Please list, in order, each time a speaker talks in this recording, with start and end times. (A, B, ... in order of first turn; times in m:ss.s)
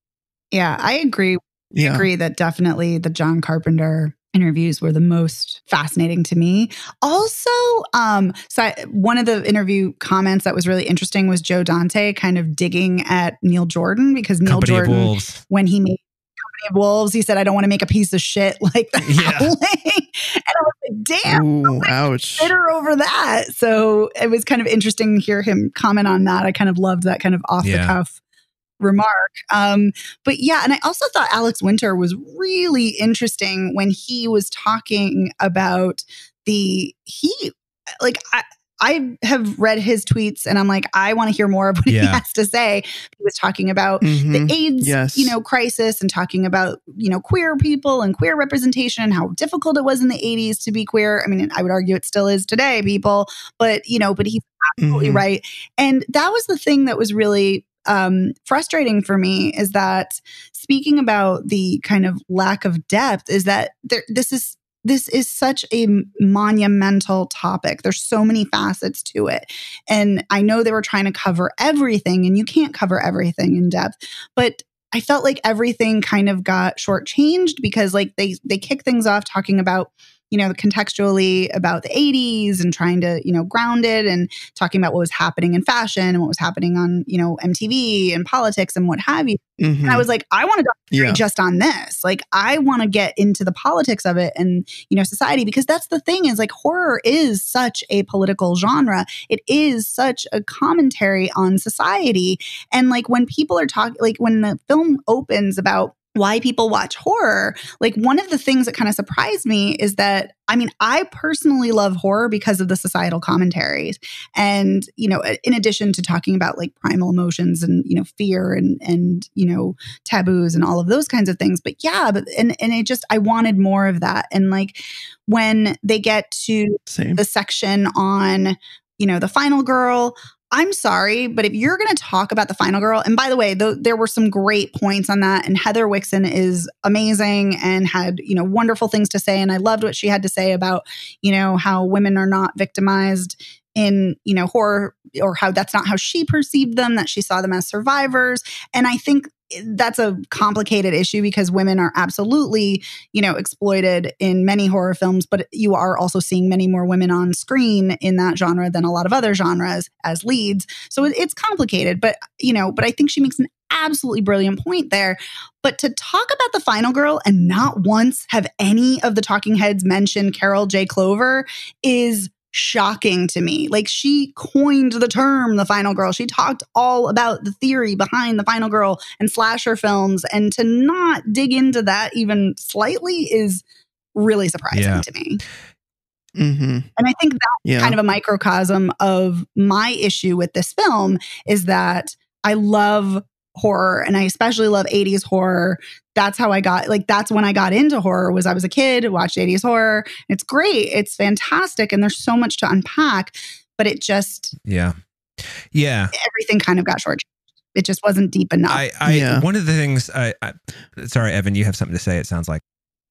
0:00.5-0:28.1 A
0:01.7-0:02.1 B
0:14.4-0:15.4 C
0:19.0-0:19.5 C
0:21.2-0:22.5 B
0:27.6-0:27.9 C
0:28.8-3:03.6 A
0:41.9-0:42.2 C
0:44.0-0:45.3 B
0:54.8-0:55.2 B
1:29.6-1:30.0 B
1:30.9-1:31.2 B
2:06.9-2:07.2 B
3:04.1-3:05.4 A
3:04.7-3:05.0 C
3:06.4-3:06.9 B
3:07.0-3:24.5 A
3:07.6-3:08.0 B
3:24.6-3:24.9 C
3:25.7-3:26.1 C
3:26.1-3:28.8 A
3:28.7-3:32.6 C
3:29.0-3:29.4 B